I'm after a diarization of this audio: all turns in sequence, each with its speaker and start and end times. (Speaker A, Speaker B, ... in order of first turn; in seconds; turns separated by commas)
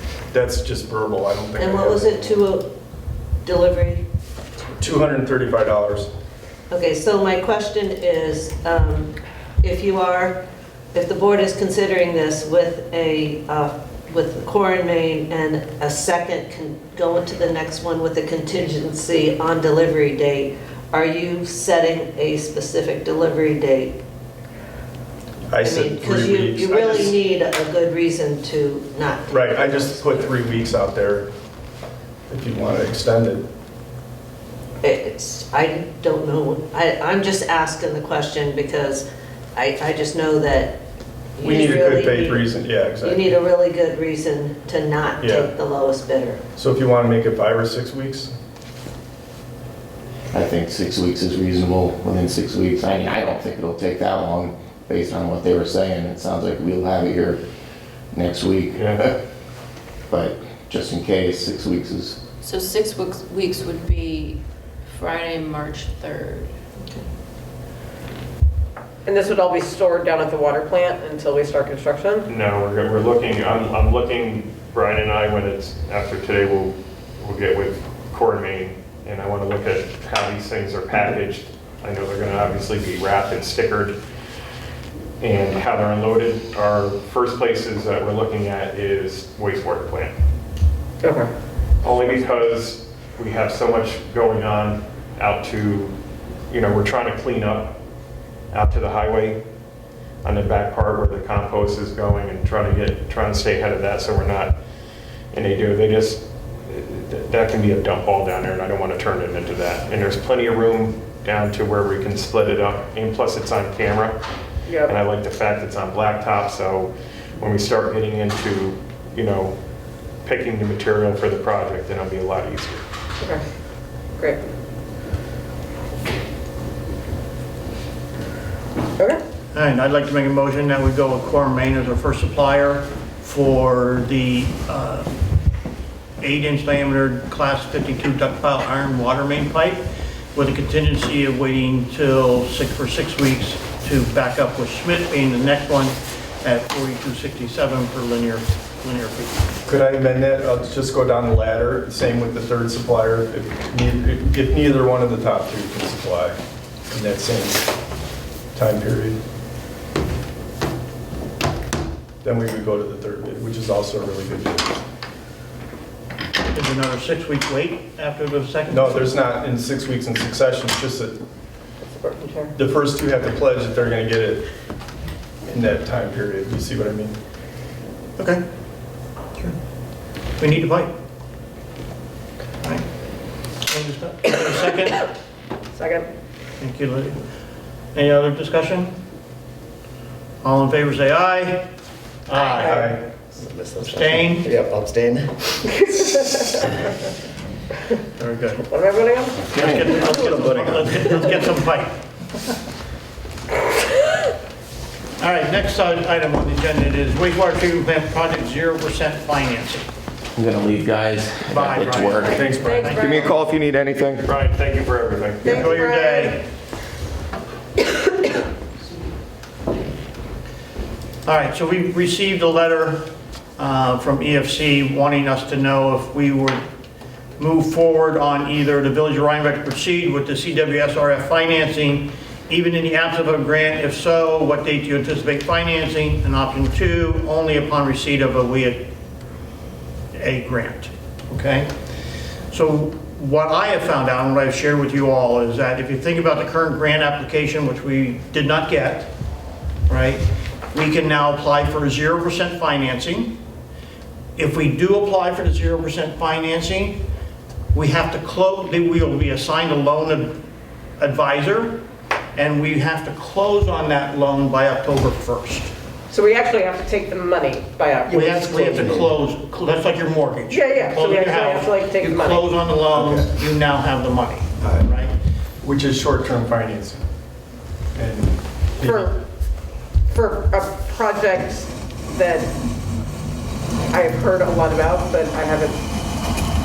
Speaker A: 0.3-2.4, Speaker B: 1.6-2.7, Speaker B: 3.4-4.0, Speaker A: 4.8-6.1, Speaker B: 6.7-24.0, Speaker A: 25.5-27.1, Speaker B: 25.6-30.1, Speaker A: 29.3-31.3, Speaker A: 32.3-33.5, Speaker B: 34.8-40.8, Speaker B: 41.4-46.4, Speaker A: 41.4-43.3, Speaker A: 45.2-45.5, Speaker A: 46.5-48.3, Speaker C: 50.3-57.4, Speaker C: 58.1-59.1, Speaker D: 58.7-59.0, Speaker C: 60.1-62.3, Speaker E: 62.4-66.5, Speaker F: 69.0-72.3, Speaker D: 72.3-84.0, Speaker D: 85.2-90.2, Speaker F: 91.0-91.3, Speaker D: 91.8-95.9, Speaker D: 96.5-97.8, Speaker D: 98.5-99.4, Speaker D: 100.2-104.5, Speaker D: 105.3-114.2, Speaker F: 114.7-114.9, Speaker D: 114.8-119.6, Speaker D: 120.2-122.8, Speaker G: 129.5-135.1, Speaker G: 136.2-149.4, Speaker A: 149.7-156.4, Speaker A: 156.9-157.7, Speaker A: 158.5-159.2, Speaker A: 162.2-164.8, Speaker G: 166.5-169.1, Speaker A: 168.7-171.2, Speaker F: 171.9-172.5, Speaker A: 172.5-174.4, Speaker A: 175.5-177.1, Speaker G: 180.4-180.9, Speaker G: 183.6-185.0, Speaker F: 185.7-186.1, Speaker G: 186.6-187.2, Speaker G: 187.9-189.0, Speaker G: 190.4-191.7, Speaker G: 192.2-192.9, Speaker F: 192.3-193.0, Speaker A: 192.6-193.0, Speaker H: 193.3-195.7, Speaker G: 193.8-194.5, Speaker F: 195.7-196.7, Speaker G: 198.2-198.6, Speaker F: 198.6-200.0, Speaker H: 199.5-201.0, Speaker G: 199.5-202.0, Speaker G: 205.2-209.8, Speaker C: 210.3-214.3, Speaker G: 211.5-213.2, Speaker F: 212.2-213.3, Speaker A: 212.4-212.8, Speaker D: 214.2-215.7, Speaker F: 215.4-216.4, Speaker G: 215.4-216.4, Speaker G: 221.2-226.6, Speaker G: 227.4-238.8, Speaker G: 240.1-241.7, Speaker G: 242.5-249.1, Speaker G: 249.9-253.3, Speaker G: 254.3-257.0, Speaker G: 257.7-260.4, Speaker G: 261.0-261.8, Speaker G: 262.3-265.7, Speaker F: 266.1-268.5, Speaker G: 268.1-275.1, Speaker H: 268.4-269.1, Speaker F: 270.5-272.5, Speaker A: 272.9-273.3, Speaker A: 274.6-274.9, Speaker A: 275.6-277.0, Speaker A: 277.9-279.1, Speaker F: 278.8-279.2, Speaker F: 280.1-282.5, Speaker F: 283.9-285.8